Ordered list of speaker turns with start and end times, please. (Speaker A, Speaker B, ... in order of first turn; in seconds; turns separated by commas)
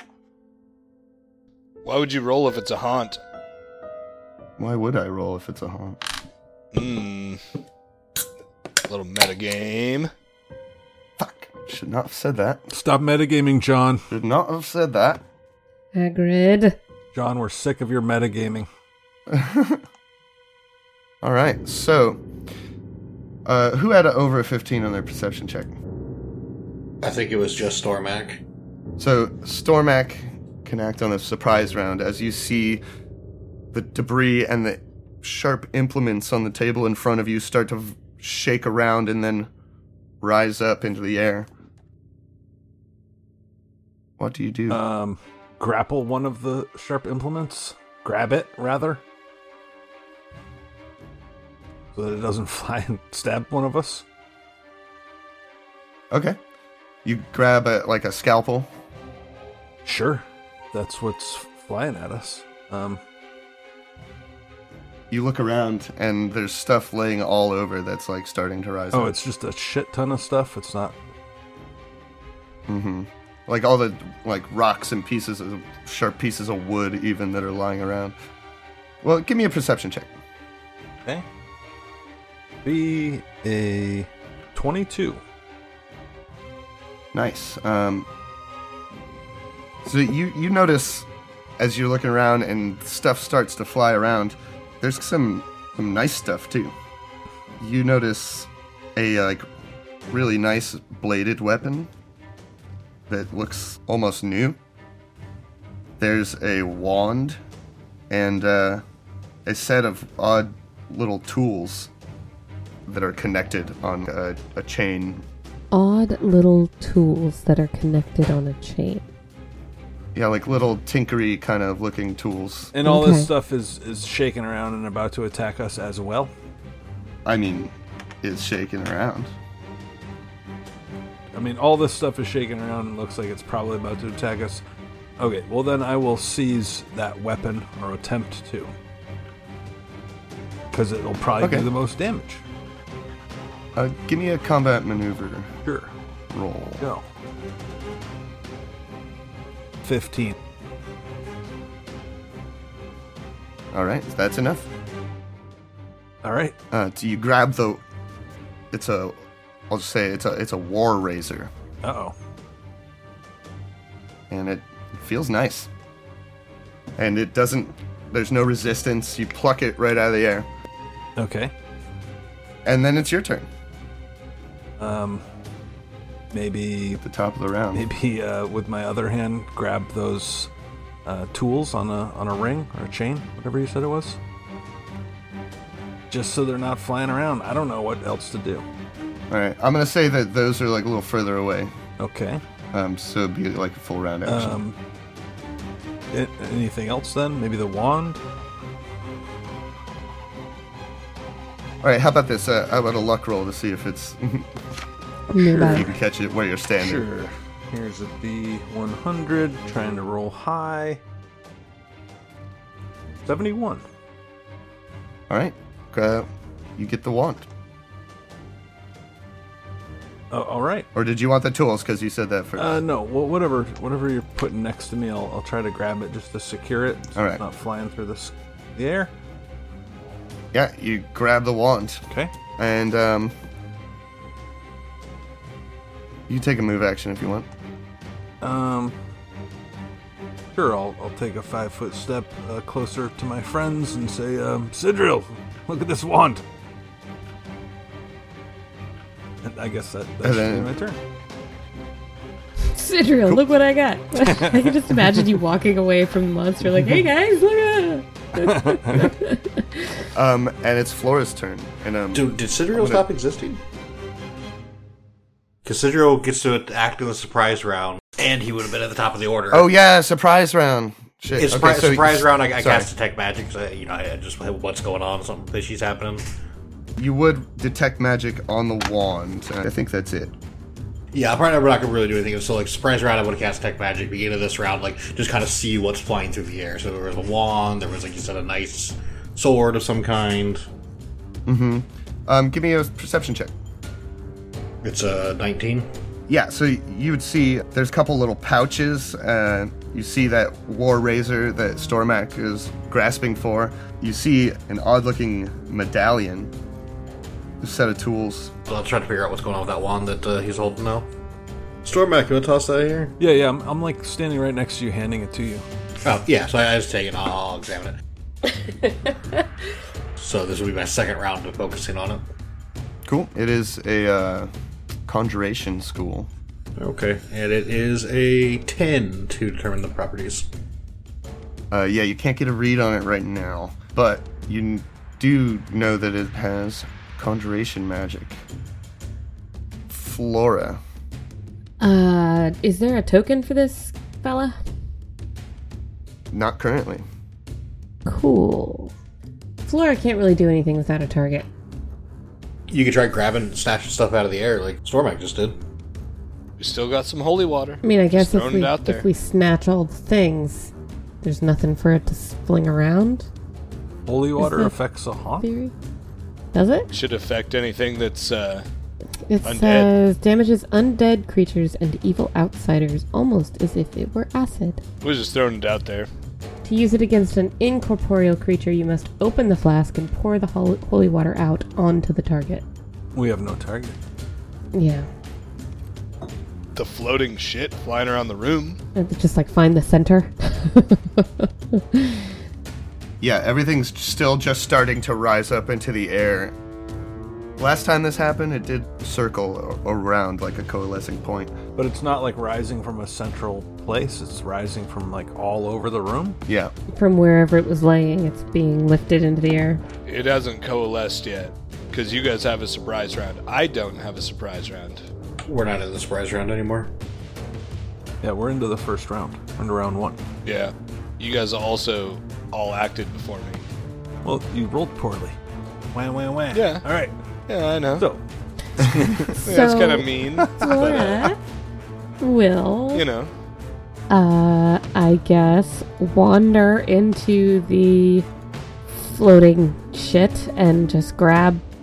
Speaker A: 1.8-3.2, Speaker B: 4.6-6.0, Speaker A: 6.7-7.4, Speaker A: 8.8-10.1, Speaker B: 11.2-12.7, Speaker C: 12.7-14.1, Speaker B: 14.1-15.2, Speaker D: 15.9-16.8, Speaker C: 17.1-18.7, Speaker B: 19.3-19.8, Speaker B: 21.2-22.2, Speaker B: 23.4-25.7, Speaker E: 27.0-28.4, Speaker B: 29.0-32.8, Speaker B: 33.7-39.5, Speaker B: 40.2-41.5, Speaker B: 44.2-44.8, Speaker C: 44.7-49.0, Speaker C: 51.9-54.0, Speaker B: 56.1-56.4, Speaker B: 57.0-58.7, Speaker C: 59.8-63.0, Speaker B: 65.1-69.2, Speaker C: 68.9-71.0, Speaker B: 72.7-78.1, Speaker B: 79.0-80.2, Speaker C: 82.6-85.2, Speaker B: 87.1-88.1, Speaker B: 89.8-91.1, Speaker B: 91.6-96.7, Speaker B: 97.6-99.4, Speaker B: 100.1-101.9, Speaker B: 103.1-104.6, Speaker B: 106.0-107.4, Speaker B: 108.1-108.8, Speaker B: 109.5-111.9, Speaker B: 112.9-115.2, Speaker D: 115.7-119.0, Speaker B: 120.1-122.7, Speaker C: 122.7-126.3, Speaker D: 122.8-123.3, Speaker B: 127.2-129.3, Speaker C: 131.3-134.6, Speaker C: 135.2-138.7, Speaker C: 140.7-142.4, Speaker B: 141.4-141.7, Speaker B: 143.8-145.5, Speaker C: 145.6-145.9, Speaker B: 146.3-146.9, Speaker C: 146.8-147.1, Speaker C: 149.8-150.3, Speaker B: 153.7-154.7, Speaker C: 156.2-156.5, Speaker B: 156.7-157.8, Speaker B: 158.7-161.5, Speaker C: 161.8-162.1, Speaker B: 164.3-165.7, Speaker B: 167.0-170.5, Speaker C: 171.2-171.5, Speaker B: 172.6-173.5, Speaker C: 174.8-175.2, Speaker C: 176.3-177.0, Speaker B: 177.0-177.9, Speaker C: 177.7-180.5, Speaker C: 181.0-184.2, Speaker C: 186.1-188.7, Speaker B: 189.3-191.7, Speaker C: 192.0-192.4, Speaker B: 192.7-194.6, Speaker C: 194.2-194.8, Speaker C: 196.1-198.2, Speaker B: 201.8-204.5, Speaker D: 205.3-205.9, Speaker C: 205.4-205.9, Speaker B: 205.7-207.0, Speaker C: 206.8-211.0, Speaker C: 213.2-213.8, Speaker B: 215.3-217.4, Speaker C: 220.3-220.9, Speaker B: 220.9-222.8, Speaker C: 222.6-229.1, Speaker B: 227.1-227.4, Speaker B: 230.5-232.0, Speaker B: 232.6-233.3, Speaker B: 236.3-237.5, Speaker C: 238.4-238.9, Speaker C: 240.5-246.4, Speaker C: 249.4-251.0, Speaker B: 250.2-250.7, Speaker D: 252.7-259.9, Speaker C: 254.2-255.2, Speaker C: 258.3-259.1, Speaker B: 260.1-263.0, Speaker E: 262.1-263.6, Speaker E: 265.6-269.7, Speaker B: 269.5-272.9, Speaker E: 271.3-276.2, Speaker B: 277.0-280.3, Speaker E: 281.1-290.7, Speaker B: 291.4-293.5, Speaker E: 294.8-295.9, Speaker B: 296.3-306.5, Speaker B: 307.6-308.5, Speaker E: 308.7-311.1, Speaker E: 311.8-313.1, Speaker C: 313.2-315.6, Speaker E: 316.0-317.9, Speaker E: 320.2-322.2, Speaker B: 323.1-324.5, Speaker B: 325.1-326.3, Speaker E: 326.8-330.5, Speaker B: 331.7-338.4, Speaker B: 339.9-340.8, Speaker D: 341.8-344.6, Speaker B: 346.3-347.1, Speaker D: 348.1-348.9, Speaker D: 349.6-351.4, Speaker E: 352.7-355.6, Speaker A: 356.6-359.1, Speaker D: 357.8-363.3, Speaker C: 364.1-365.5, Speaker D: 364.4-364.7, Speaker D: 365.4-365.7, Speaker D: 366.5-366.9, Speaker A: 366.9-368.6, Speaker D: 369.3-374.8, Speaker A: 369.4-369.9, Speaker A: 375.0-376.1, Speaker D: 376.6-382.6, Speaker C: 383.1-384.0, Speaker D: 384.7-385.1, Speaker A: 386.7-388.8, Speaker D: 388.9-392.3, Speaker B: 393.2-396.6, Speaker B: 397.6-401.6, Speaker C: 401.8-406.4, Speaker B: 406.5-406.7, Speaker D: 406.9-409.8, Speaker A: 410.1-415.0, Speaker E: 415.4-416.9, Speaker C: 418.2-420.2, Speaker A: 420.4-423.6, Speaker C: 424.2-425.4, Speaker C: 425.9-427.1, Speaker A: 426.5-426.8, Speaker A: 427.5-428.0, Speaker C: 428.0-428.2, Speaker C: 428.8-429.3, Speaker D: 429.3-431.4, Speaker A: 429.4-431.3, Speaker C: 430.4-430.8, Speaker D: 432.2-433.0, Speaker A: 432.9-433.3, Speaker D: 434.1-438.3, Speaker D: 438.9-441.6